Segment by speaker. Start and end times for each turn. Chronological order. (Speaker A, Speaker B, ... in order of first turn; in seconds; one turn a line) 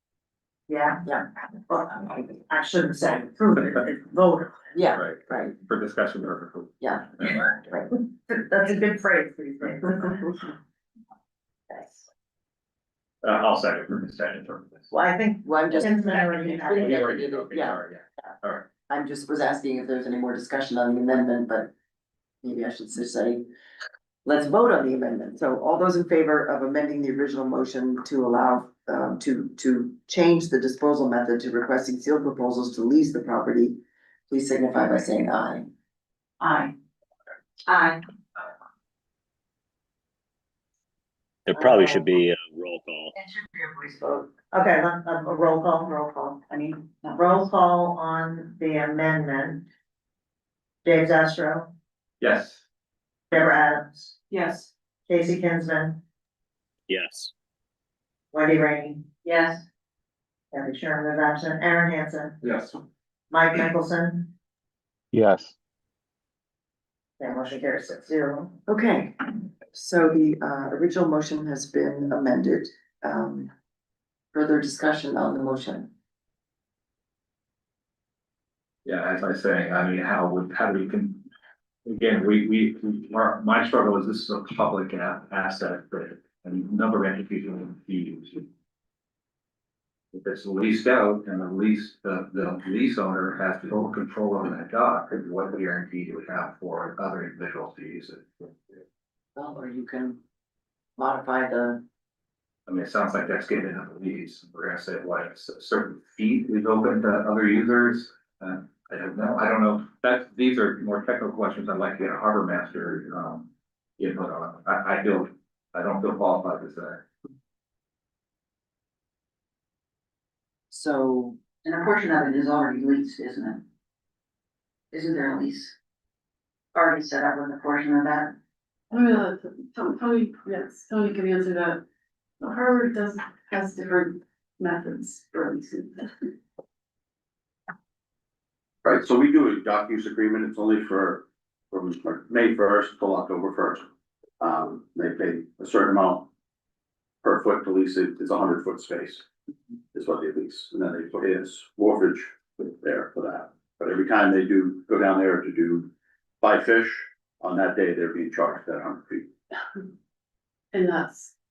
Speaker A: 0.7-1.0
Speaker A: 1.7-4.7
Speaker B: 4.7-5.5
Speaker C: 4.9-7.5
Speaker B: 6.8-7.9
Speaker A: 8.1-10.5
Speaker A: 11.7-12.1
Speaker C: 13.2-14.9
Speaker A: 14.9-17.0
Speaker B: 15.4-17.8
Speaker C: 16.8-18.7
Speaker B: 18.9-21.7
Speaker B: 22.4-23.5
Speaker B: 24.2-35.7
Speaker D: 36.4-36.7
Speaker D: 37.7-38.0
Speaker E: 41.5-43.1
Speaker A: 41.6-42.0
Speaker A: 44.5-46.4
Speaker D: 46.5-47.2
Speaker A: 47.1-49.6
Speaker A: 50.8-51.7
Speaker C: 52.2-52.6
Speaker A: 53.3-54.1
Speaker D: 54.3-54.7
Speaker A: 55.1-56.0
Speaker E: 56.9-57.3
Speaker A: 58.3-59.1
Speaker D: 59.2-59.6
Speaker A: 60.5-62.4
Speaker C: 62.4-62.8
Speaker A: 63.3-64.3
Speaker C: 65.1-65.5
Speaker A: 67.2-68.6
Speaker B: 68.7-73.5
Speaker B: 74.3-75.9
Speaker C: 78.8-81.2
Speaker C: 81.8-88.5
Speaker C: 90.1-98.5
Speaker B: 99.4-100.2
Speaker B: 101.0-101.8
Speaker C: 102.7-117.0
Speaker B: 120.7-121.4
Speaker D: 121.6-123.6
Speaker D: 124.9-125.8
Speaker D: 126.7-128.3
Speaker F: 128.9-131.8
Speaker F: 132.4-136.1
Speaker G: 138.8-143.8
Speaker G: 144.4-146.3
Speaker G: 147.2-149.2
Speaker G: 149.9-155.9
Speaker G: 156.4-159.3
Speaker F: 160.7-161.3